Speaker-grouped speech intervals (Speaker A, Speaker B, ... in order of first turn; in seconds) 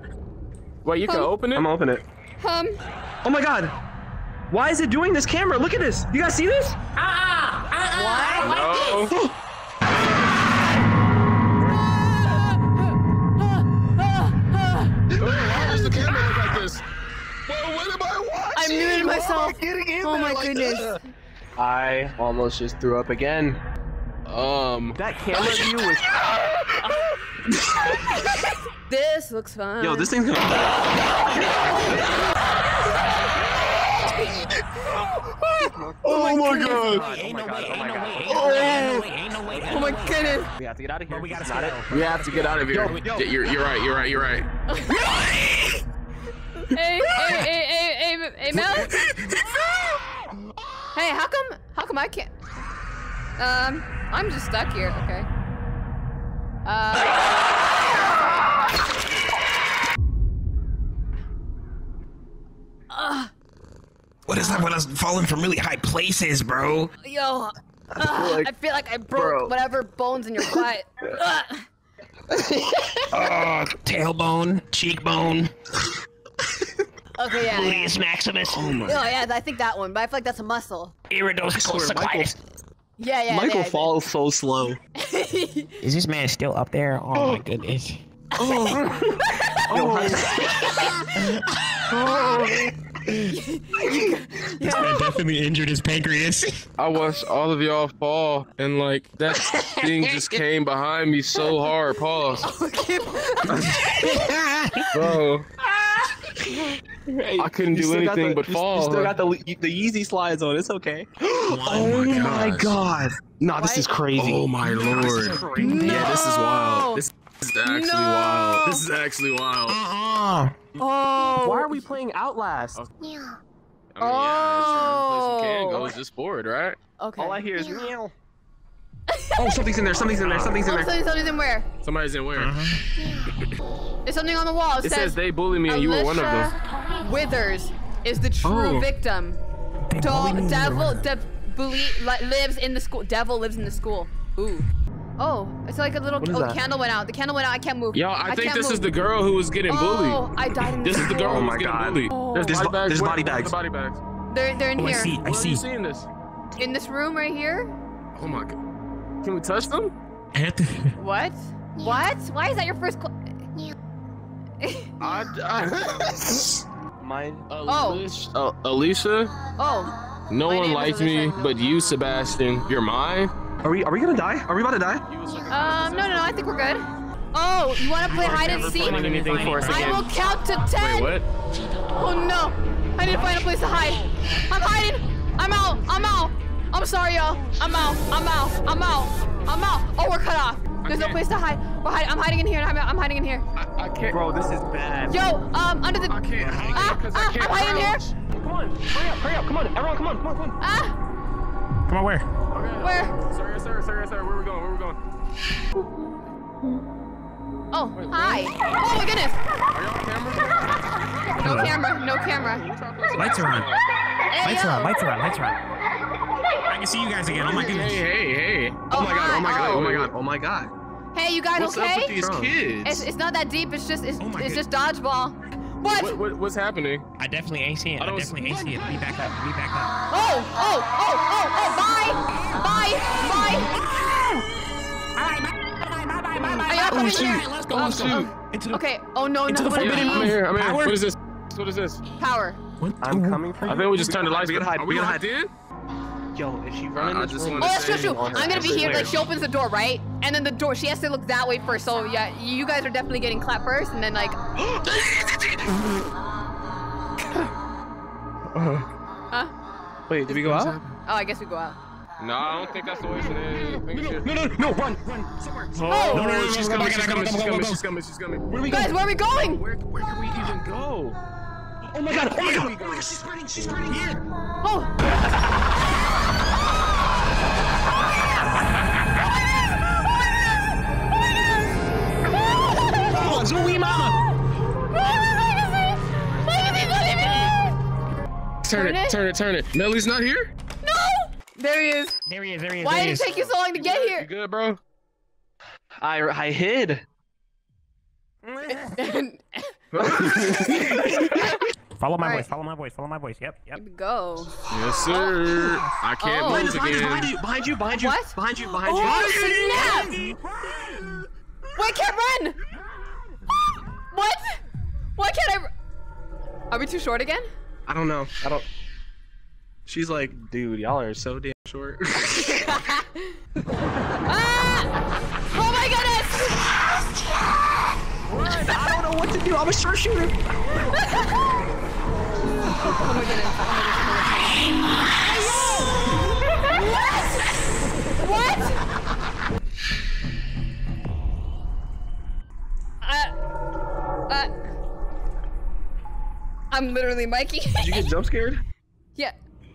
Speaker A: 0.8-1.7, 8.4-9.1, 15.2-16.8, 17.5-19.2, 20.5-20.9, 24.3-25.5, 36.0-37.0, 38.3-39.1, 41.9-44.5, 49.1-49.4, 88.5-88.8, 89.7-90.2, 92.1-92.4, 96.8-102.5, 104.9-105.5, 107.4-109.2, 111.9-112.8, 114.2-119.8, 124.0-126.8, 130.0-130.7, 131.8-132.5, 134.8-136.5, 147.9-154.0, 155.2-156.1, 158.2-158.6, 159.2-159.9, 165.0-166.6, 167.5-169.3, 170.3-173.3, 175.1-176.7, 178.1-181.2, 190.8-191.2, 193.6-194.3, 196.1-198.1, 202.5-205.0, 207.9-208.7, 209.7-210.8, 212.4-213.8, 217.3-220.1, 221.6-223.1, 225.9-227.0, 228.0-229.0, 236.4-236.7, 237.7-238.3, 239.8-242.0, 243.6-245.5, 246.9-249.3, 260.3-260.9, 262.2-264.3, 265.8-271.2, 272.2-273.2, 288.6-290.5, 293.3-294.8, 299.9-300.8, 304.7-307.3, 309.1-310.0
Speaker B: 1.1-1.3, 2.4-2.8, 7.9-9.2, 11.7-15.0, 18.6-21.0, 28.4-30.1, 34.0-34.4, 36.1-36.9, 39.6-40.5, 44.7-45.3, 46.6-49.0, 50.9-52.4, 53.4-55.3, 56.6-57.5, 62.9-63.3, 64.4-64.7, 67.0-71.7, 77.2-78.0, 78.8-80.9, 83.0-83.9, 85.0-85.8, 88.4-88.8, 93.3-95.2, 102.4-104.1, 113.6-114.0, 115.6-117.0, 117.6-118.8, 120.8-121.8, 124.0-126.0, 127.0-127.5, 129.1-129.7, 130.6-131.7, 134.1-135.2, 135.7-139.4, 140.0-144.7, 145.2-148.9, 149.7-151.5, 152.1-152.6, 154.3-155.2, 156.6-157.7, 161.0-163.2, 164.6-164.9, 167.7-168.1, 169.6-169.9, 170.5-171.8, 175.5-181.2, 181.9-193.4, 195.1-196.2, 196.7-198.0, 200.6-200.9, 202.8-203.2, 207.7-209.4, 211.4-212.7, 214.3-214.9, 218.9-219.9, 221.1-222.3, 222.8-226.2, 230.1-233.7, 236.7-240.4, 242.2-242.6, 247.6-254.4, 261.1-261.8, 265.8-266.3, 268.7-269.6, 274.6-274.9, 282.3-283.5, 284.8-287.7, 288.7-289.2, 290.8-292.2, 292.8-294.3, 298.7-299.7, 300.9-301.7, 302.2-302.5, 303.8-304.5, 305.1-305.6, 306.2-307.2, 307.9-310.1, 311.8-312.6, 314.1-314.6, 315.2-315.7, 316.7-317.5, 322.3-323.4, 324.2-325.0, 325.5-326.9, 330.9-331.3, 332.6-334.7, 335.2-337.3, 338.2-338.8, 343.0-343.3, 346.7-348.1
Speaker C: 1.5-2.0, 3.2-3.8, 4.5-6.8, 19.1-20.5, 21.6-23.6, 24.9-26.2, 29.8-31.0, 35.6-38.9, 40.6-43.3, 68.0-68.5, 69.1-69.5, 78.6-79.0, 81.5-82.3, 83.3-84.8, 88.4-89.2, 89.7-90.7, 91.9-92.7, 107.1-114.5, 115.8-116.2, 121.4-122.8, 127.2-128.1, 129.4-130.9, 138.4-138.9, 146.2-146.6, 150.9-153.6, 167.0-167.5, 173.6-175.1, 194.1-195.2, 198.3-200.6, 218.9-220.7, 222.1-222.6, 243.0-245.2, 246.3-249.3, 260.1-260.8, 265.4-265.7, 268.5-268.9, 271.9-272.7, 296.0-297.0, 300.0-301.3, 306.4-310.1, 317.9-318.7, 319.9-322.7, 328.3-330.3, 347.8-348.6
Speaker D: 7.0-9.2, 36.8-40.5, 41.1-42.1, 42.7-43.1, 48.6-50.0, 64.3-66.9, 73.1-75.5, 77.4-79.0, 81.1-82.4, 85.8-88.0, 89.4-92.0, 93.1-93.3, 94.6-96.6, 99.4-100.4, 103.6-105.2, 111.4-112.6, 114.6-116.2, 119.7-120.6, 132.3-132.8, 139.9-141.1, 154.8-155.7, 160.3-160.9, 178.0-180.1, 183.0-183.6, 196.4-197.0, 201.9-202.3, 211.3-211.8, 213.2-213.7, 214.4-215.6, 216.7-218.1, 224.2-224.7, 227.2-229.9, 232.2-234.5, 235.2-238.8, 239.5-241.0, 242.8-244.0, 263.5-267.8, 271.9-274.2, 282.7-284.2, 292.3-293.4, 298.4-299.1, 302.0-303.8, 309.0-311.2, 335.2-335.9